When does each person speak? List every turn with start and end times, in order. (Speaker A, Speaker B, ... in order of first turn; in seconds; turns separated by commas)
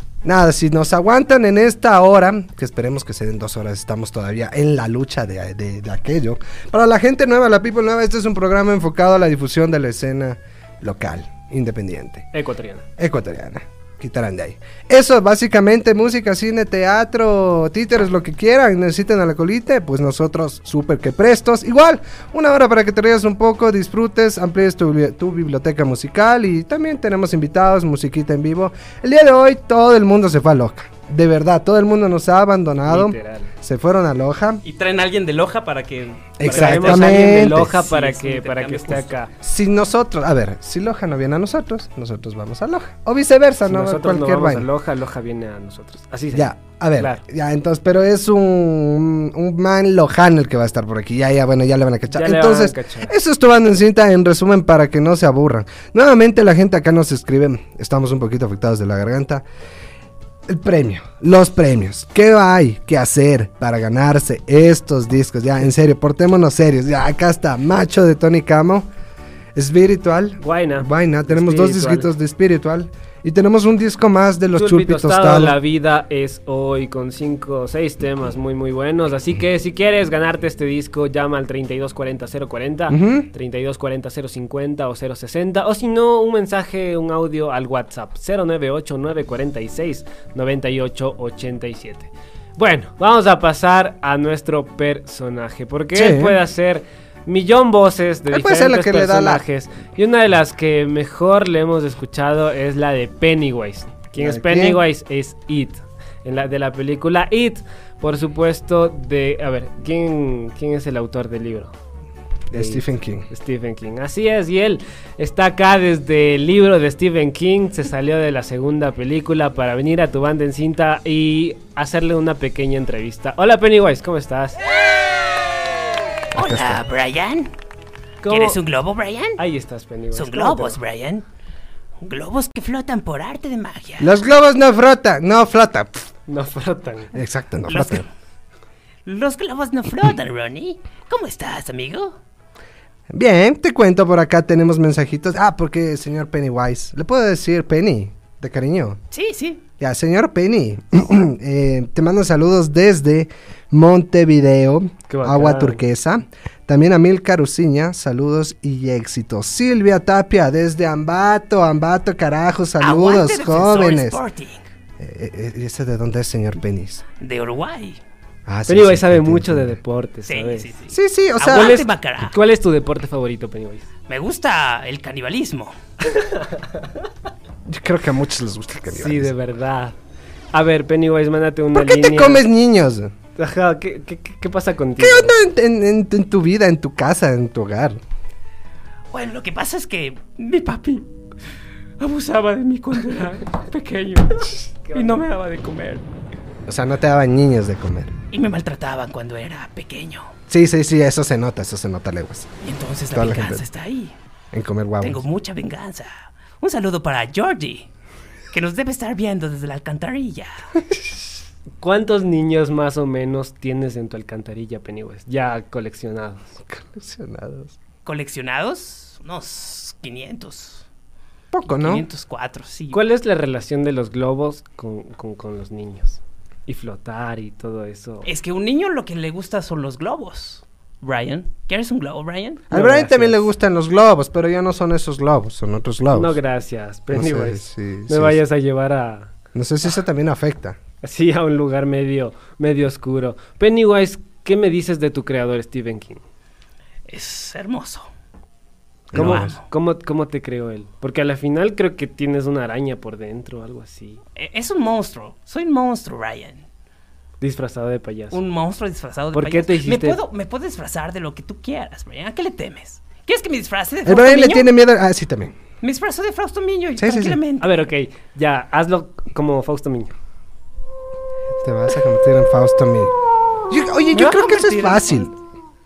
Speaker A: 0.2-12.3, Speaker B: 12.3-12.8, Speaker A: 13.0-34.6, Speaker B: 32.9-33.5, Speaker C: 34.6-39.0, Speaker A: 36.4-37.8, Speaker B: 36.4-39.3, Speaker A: 39.4-44.7, Speaker B: 43.7-47.2, Speaker A: 46.3-59.4, Speaker B: 52.1-53.1, Speaker A: 60.5-68.9, Speaker A: 69.5-75.6, Speaker B: 70.4-72.1, Speaker B: 74.5-111.7, Speaker A: 82.9-83.3, Speaker A: 95.9-96.4, Speaker A: 98.3-99.4, Speaker A: 104.2-104.8, Speaker A: 112.5-113.3, Speaker B: 112.5-124.6, Speaker A: 126.3-126.8, Speaker C: 126.3-127.5, Speaker B: 128.2-128.6, Speaker C: 128.3-129.4, Speaker B: 129.4-130.8, Speaker C: 130.1-131.2, Speaker C: 132.0-134.1, Speaker A: 134.0-136.0, Speaker B: 136.3-137.1, Speaker A: 137.1-138.1, Speaker C: 137.7-138.1, Speaker C: 139.1-142.1, Speaker A: 143.1-149.0, Speaker C: 149.1-149.6, Speaker A: 149.8-164.2, Speaker B: 155.1-155.8, Speaker C: 162.8-164.6, Speaker A: 165.0-167.0, Speaker C: 167.2-168.0, Speaker A: 168.4-169.8, Speaker B: 168.7-170.7, Speaker C: 170.3-172.3, Speaker A: 170.9-171.8, Speaker B: 171.5-173.9, Speaker C: 174.1-175.7, Speaker B: 176.1-176.6, Speaker A: 177.7-179.3, Speaker B: 178.9-179.9, Speaker B: 180.5-182.4, Speaker A: 181.7-183.1, Speaker B: 183.4-185.3, Speaker A: 185.0-188.0, Speaker C: 189.1-191.1, Speaker C: 192.0-196.0, Speaker B: 194.9-195.2, Speaker A: 196.7-198.1, Speaker C: 198.3-200.3, Speaker A: 200.5-202.5, Speaker C: 202.6-204.1, Speaker A: 203.1-203.6, Speaker A: 204.5-205.2, Speaker C: 205.0-207.9, Speaker C: 208.5-210.7, Speaker B: 211.8-216.6, Speaker A: 216.7-217.8, Speaker C: 218.0-220.8, Speaker A: 221.5-222.0, Speaker C: 221.7-223.0, Speaker B: 222.9-228.3, Speaker C: 228.2-232.6, Speaker A: 232.7-236.4, Speaker B: 232.7-233.4, Speaker B: 236.1-239.3, Speaker A: 237.1-238.4, Speaker A: 239.5-240.8, Speaker B: 241.0-246.2, Speaker C: 247.1-248.1, Speaker A: 249.1-249.5, Speaker B: 249.1-254.2, Speaker C: 249.2-249.5, Speaker C: 254.3-256.6, Speaker B: 257.4-258.4, Speaker C: 258.3-264.7, Speaker B: 259.3-260.2, Speaker A: 264.0-265.5, Speaker C: 265.8-267.7, Speaker A: 267.0-267.4, Speaker B: 267.6-270.1, Speaker A: 271.6-273.1, Speaker A: 273.7-275.3, Speaker C: 274.1-275.3